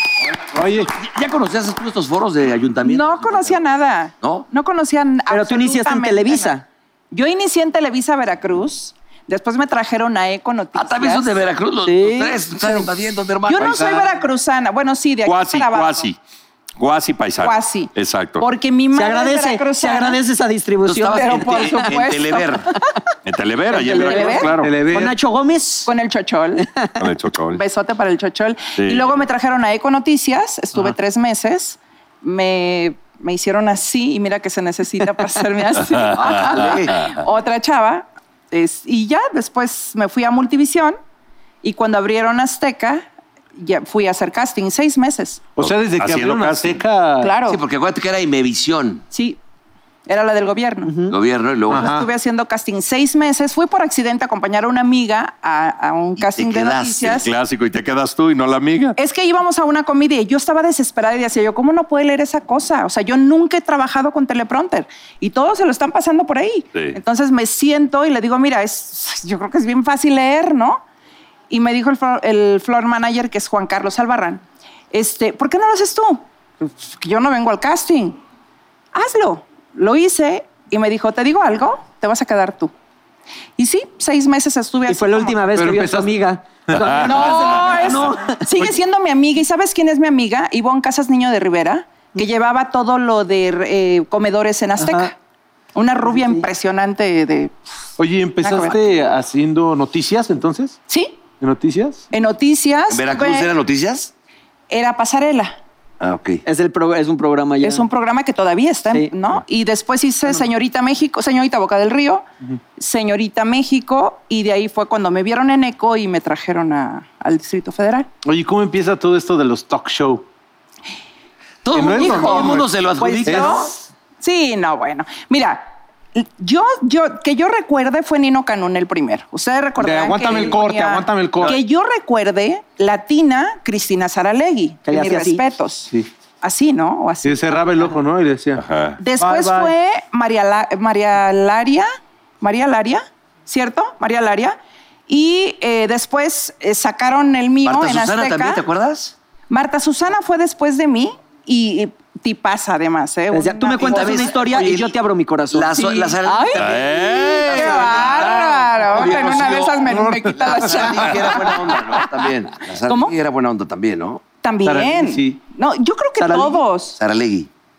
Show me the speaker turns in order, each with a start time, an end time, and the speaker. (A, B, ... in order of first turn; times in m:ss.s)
0:00.3-0:03.6 A
0:00.5-0:00.9 B
0:02.8-0:06.6 C
0:04.2-0:04.5 A
0:05.3-0:06.6 D
0:07.1-0:11.3 C
0:10.8-0:14.1 A
0:11.8-0:12.9 D
0:13.5-0:16.1 C
0:13.6-0:13.9 E
0:15.2-0:16.2 E
0:16.8-0:18.5 E
0:17.4-0:20.2 C
0:18.9-0:21.7 D
0:20.8-0:22.7 A
0:21.1-0:22.6 C
0:23.2-0:24.8 E
0:23.7-0:25.9 D
0:23.8-0:24.6 C
0:24.5-0:25.2 B
0:25.9-0:26.7 C
0:26.6-0:26.9 D
0:27.0-0:27.6 E
0:27.5-0:41.0 C
0:28.8-0:29.2 E
0:35.8-0:36.7 E
0:36.1-0:37.2 A
0:41.6-0:43.0 C
0:43.6-0:45.5 C
0:45.6-0:47.4 B
0:45.6-0:46.8 E
0:47.2-0:47.6 C
0:47.5-0:49.0 A
0:49.1-0:49.4 C
0:50.1-0:51.1 C
0:50.8-0:51.1 D
0:51.1-0:51.9 A
0:51.7-0:52.1 B
0:51.7-0:57.3 C
0:56.2-0:57.3 A
0:57.2-0:59.0 E
0:59.0-1:10.8 C
1:11.5-1:18.2 C
1:18.9-1:22.7 C
1:23.6-1:25.5 C
1:24.9-1:28.7 D
1:25.5-1:26.1 B
1:26.7-1:27.5 E
1:27.1-1:35.2 C
1:34.8-1:35.1 D
1:35.8-1:37.6 C
1:36.1-1:36.5 D
1:38.0-1:40.8 B
1:38.4-1:38.8 C
1:40.9-1:41.2 C
1:41.4-1:42.0 B
1:42.1-1:43.5 C
1:42.9-1:44.1 A
1:44.7-1:45.6 C
1:46.0-1:46.4 A
1:46.4-1:47.9 D
1:47.6-1:52.3 C
1:52.8-1:58.1 C
1:58.2-2:00.2 B
2:01.6-2:03.7 A
2:01.7-2:02.7 B
2:02.0-2:17.8 C
2:03.2-2:03.5 B
2:09.8-2:11.6 B
2:14.9-2:15.4 D
2:17.2-2:18.6 B
2:18.6-2:19.0 E
2:19.0-2:21.9 C
2:19.2-2:19.7 B
2:22.4-2:28.6 C
2:27.6-2:29.2 A
2:29.5-2:34.5 C
2:33.3-2:36.6 D
2:33.8-2:35.0 A
2:35.5-2:44.2 A
2:36.3-2:36.7 C
2:36.6-2:38.4 E
2:37.4-2:41.7 C
2:39.8-2:41.0 B
2:42.9-2:43.2 C
2:44.4-2:47.0 C
2:44.6-2:45.4 B
2:46.2-2:46.6 D
2:47.0-2:47.5 A